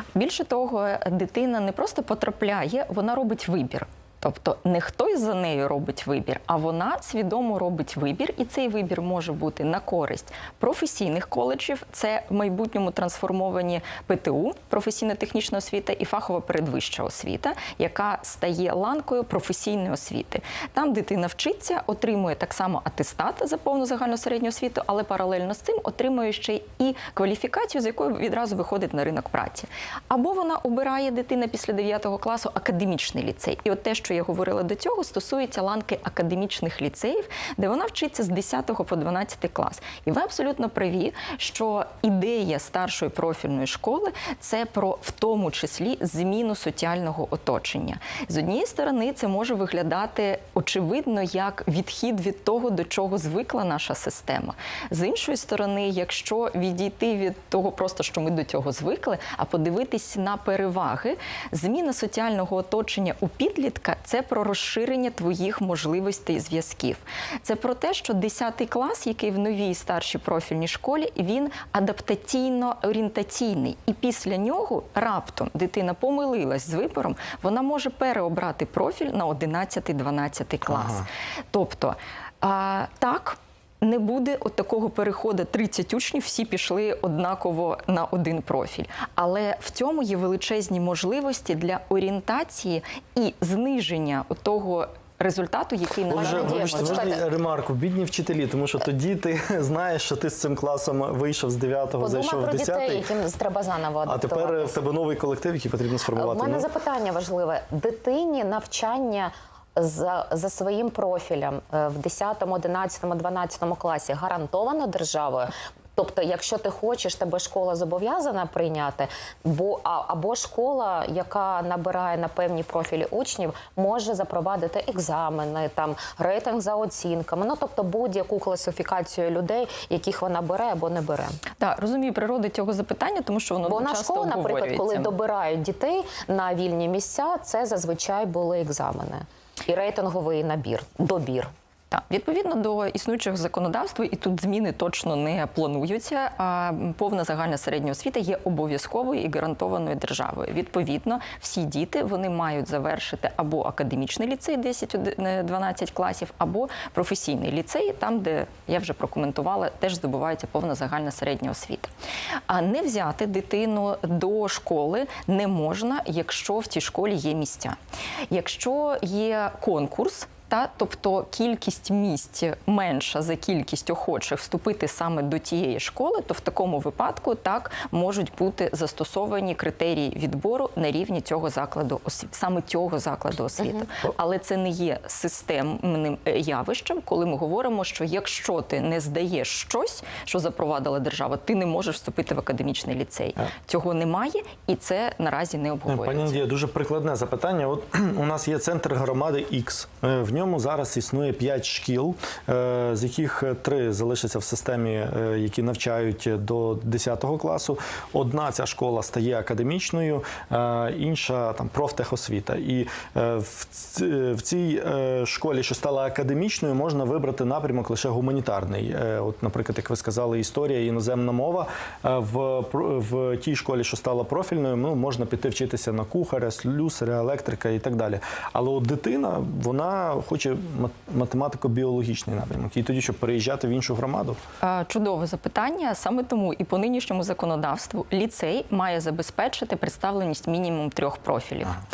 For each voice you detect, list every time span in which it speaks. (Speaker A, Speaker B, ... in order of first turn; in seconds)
Speaker A: 0.1-97.2, 131.6-135.1, 141.9-161.9, 162.5-167.8, 168.3-196.4, 234.6-241.8
Speaker B: 80.7-81.0, 96.1-103.0, 104.0-106.7, 195.9-234.4
Speaker C: 96.1-97.2, 102.0-104.8, 106.1-131.4, 133.6-141.5